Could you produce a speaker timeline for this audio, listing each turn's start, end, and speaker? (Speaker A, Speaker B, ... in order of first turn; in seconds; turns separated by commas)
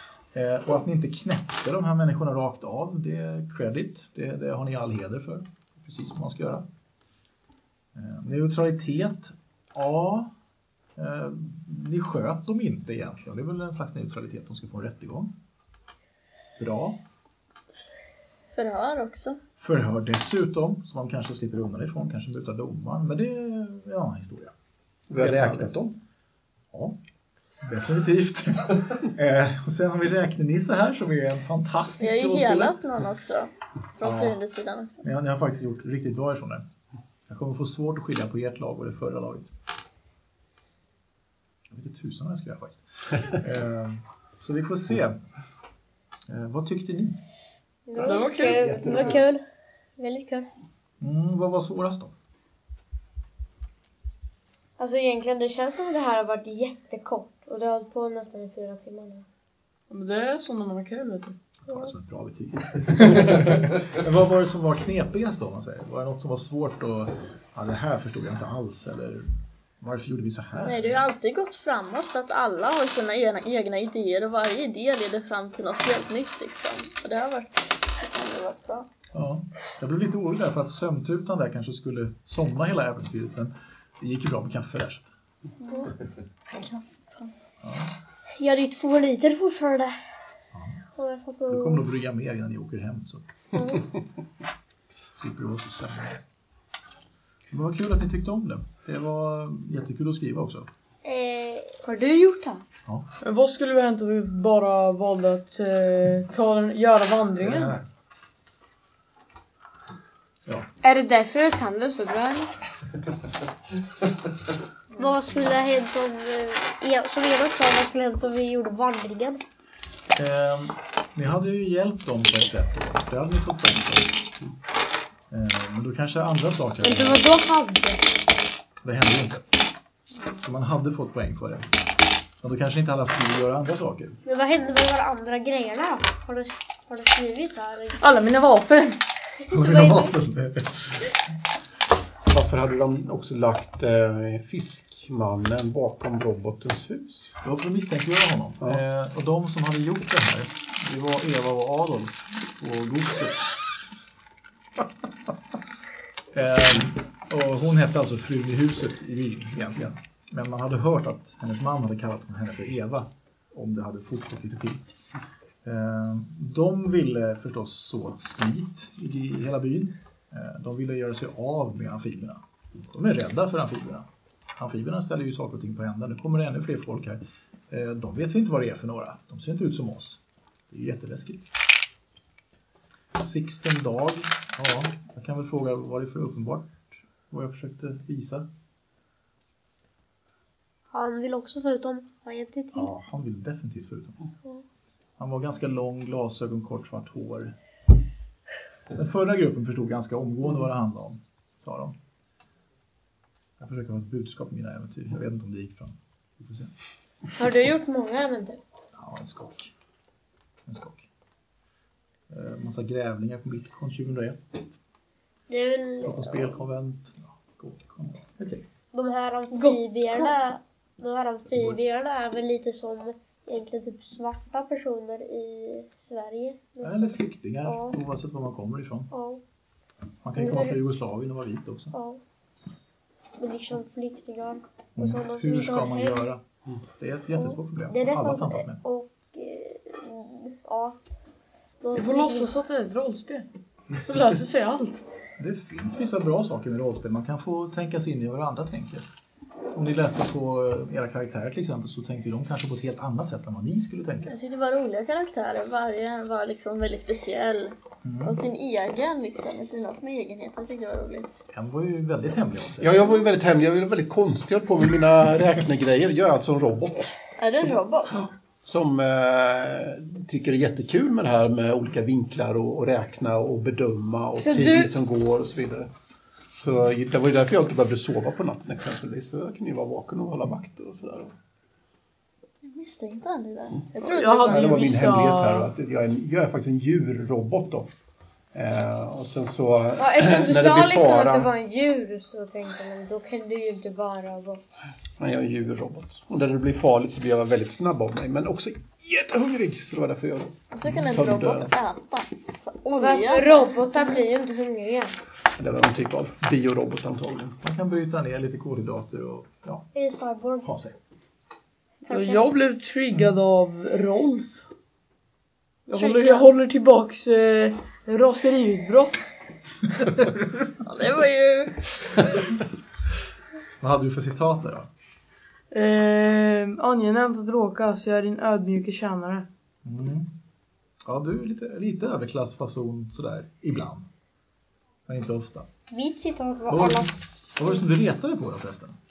Speaker A: 0.3-6.6, Speaker A: 7.9-10.3, Speaker A: 10.9-15.3, Speaker A: 16.6-17.0, Speaker B: 18.5-19.4, Speaker A: 19.6-24.5, Speaker C: 25.1-25.9, Speaker A: 25.1-25.9, Speaker A: 26.7-26.9, Speaker A: 27.6-32.8, Speaker B: 32.0-35.0, Speaker A: 34.0-34.4, Speaker A: 35.0-36.6, Speaker A: 37.3-39.5, Speaker A: 41.7-45.2, Speaker A: 46.3-47.2, Speaker D: 47.9-49.1, Speaker E: 47.9-49.4, Speaker F: 48.0-48.8, Speaker C: 48.4-49.3, Speaker E: 50.0-50.5, Speaker A: 51.0-52.1, Speaker D: 54.8-59.2, Speaker F: 59.9-61.4, Speaker A: 61.7-71.0, Speaker B: 70.6-78.9, Speaker A: 79.1-85.1, Speaker B: 85.6-85.9, Speaker B: 86.5-87.3, Speaker A: 87.6-87.9, Speaker E: 88.4-89.9, Speaker A: 90.5-90.8, Speaker E: 90.9-91.8, Speaker A: 91.5-93.7, Speaker A: 95.2-96.2, Speaker A: 97.5-100.7, Speaker E: 101.0-101.8, Speaker D: 101.8-102.6, Speaker F: 103.2-107.8, Speaker A: 107.4-107.8, Speaker D: 110.8-112.5, Speaker E: 115.0-119.4, Speaker A: 120.2-124.2, Speaker A: 125.3-127.2, Speaker D: 126.8-128.0, Speaker A: 128.8-129.4, Speaker A: 130.4-131.7, Speaker A: 132.4-134.2, Speaker E: 134.2-138.0, Speaker F: 138.0-139.0, Speaker E: 139.4-140.1, Speaker A: 139.5-141.0, Speaker C: 142.3-147.3, Speaker A: 147.4-153.4, Speaker A: 156.3-164.8, Speaker A: 165.6-174.1, Speaker A: 174.6-181.5, Speaker A: 183.2-188.4, Speaker E: 190.9-192.9, Speaker A: 192.7-194.2, Speaker A: 195.2-197.5, Speaker A: 198.9-201.9, Speaker A: 203.6-206.7, Speaker D: 207.4-208.6, Speaker A: 208.9-209.7, Speaker A: 210.7-211.1, Speaker A: 212.3-214.6, Speaker E: 215.5-216.5, Speaker A: 216.0-218.6, Speaker E: 218.9-227.1, Speaker F: 219.5-220.3, Speaker A: 226.8-229.1, Speaker E: 227.6-227.9, Speaker E: 229.1-229.4, Speaker A: 230.2-231.9, Speaker E: 230.4-230.8, Speaker E: 231.9-232.2, Speaker E: 233.4-236.3, Speaker A: 234.9-238.8, Speaker E: 237.4-241.0, Speaker E: 241.8-242.5, Speaker F: 241.9-245.0, Speaker A: 245.4-249.1, Speaker A: 249.7-254.3, Speaker B: 254.2-261.4, Speaker A: 258.0-258.4, Speaker A: 261.5-262.9, Speaker C: 262.8-275.9, Speaker B: 267.4-268.2, Speaker D: 274.4-274.9, Speaker C: 276.5-281.3, Speaker B: 282.6-284.9, Speaker F: 284.1-285.7, Speaker C: 284.5-287.9, Speaker C: 288.5-291.5, Speaker D: 290.0-294.6, Speaker C: 295.2-301.7, Speaker B: 300.7-303.6, Speaker D: 302.9-305.1, Speaker C: 305.6-307.6, Speaker A: 307.6-309.9, Speaker E: 309.9-310.7, Speaker A: 310.6-310.9, Speaker F: 312.1-314.6, Speaker E: 312.1-312.4, Speaker F: 315.9-319.3, Speaker D: 316.0-316.4, Speaker B: 320.8-322.0, Speaker A: 323.8-324.9, Speaker F: 325.7-329.4, Speaker A: 329.8-330.3, Speaker A: 331.0-334.1, Speaker A: 335.1-335.7, Speaker E: 335.9-337.1, Speaker A: 336.7-338.9